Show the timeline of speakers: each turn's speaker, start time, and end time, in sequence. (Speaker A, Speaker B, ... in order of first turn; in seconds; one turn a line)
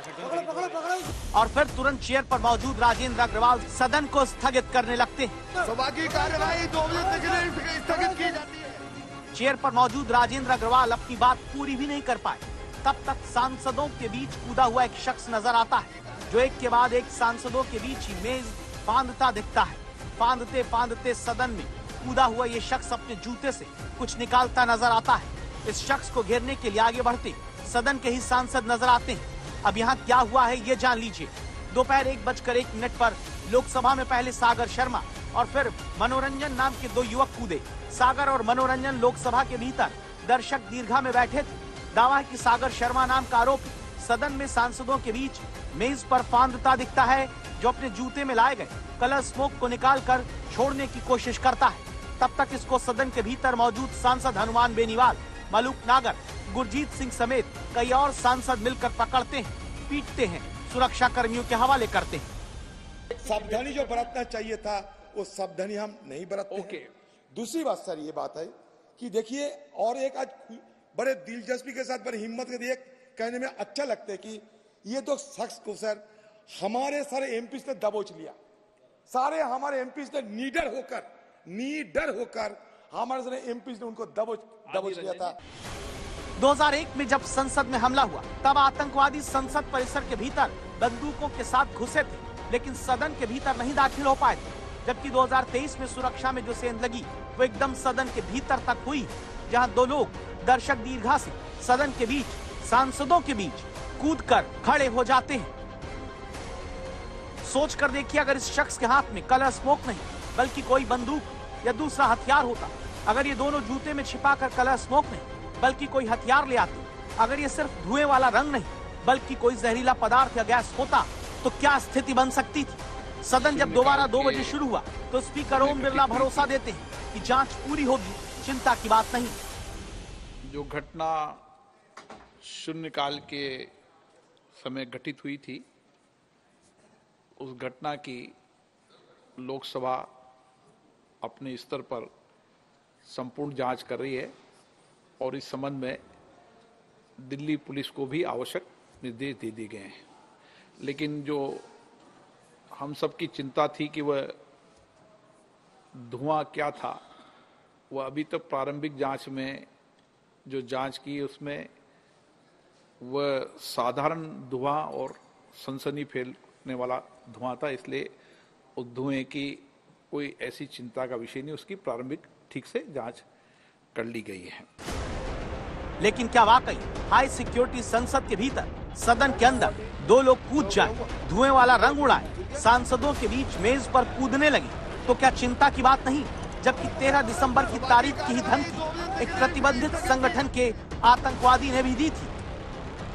Speaker A: 1.3-5.4
Speaker B: 6.1-8.5
Speaker A: 9.3-62.3
Speaker C: 63.2-78.3
Speaker D: 66.5-66.9
Speaker C: 79.1-85.4
Speaker D: 84.7-85.4
Speaker A: 86.4-105.5
Speaker A: 107.4-129.4
Speaker D: 123.4-124.6
Speaker D: 125.5-126.5
Speaker D: 130.4-131.4
Speaker D: 132.4-133.7
Speaker D: 134.6-135.7
Speaker D: 137.4-138.3
Speaker D: 139.4-140.1
Speaker D: 141.2-142.1
Speaker D: 143.1-144.3
Speaker D: 145.2-146.0
Speaker D: 147.2-150.0
Speaker D: 150.8-151.7
Speaker D: 152.8-154.4
Speaker D: 156.1-157.0
Speaker D: 157.9-159.7
Speaker D: 160.5-161.7
Speaker D: 163.0-168.1
Speaker D: 168.8-173.2
Speaker D: 173.9-174.7
Speaker A: 176.0-192.3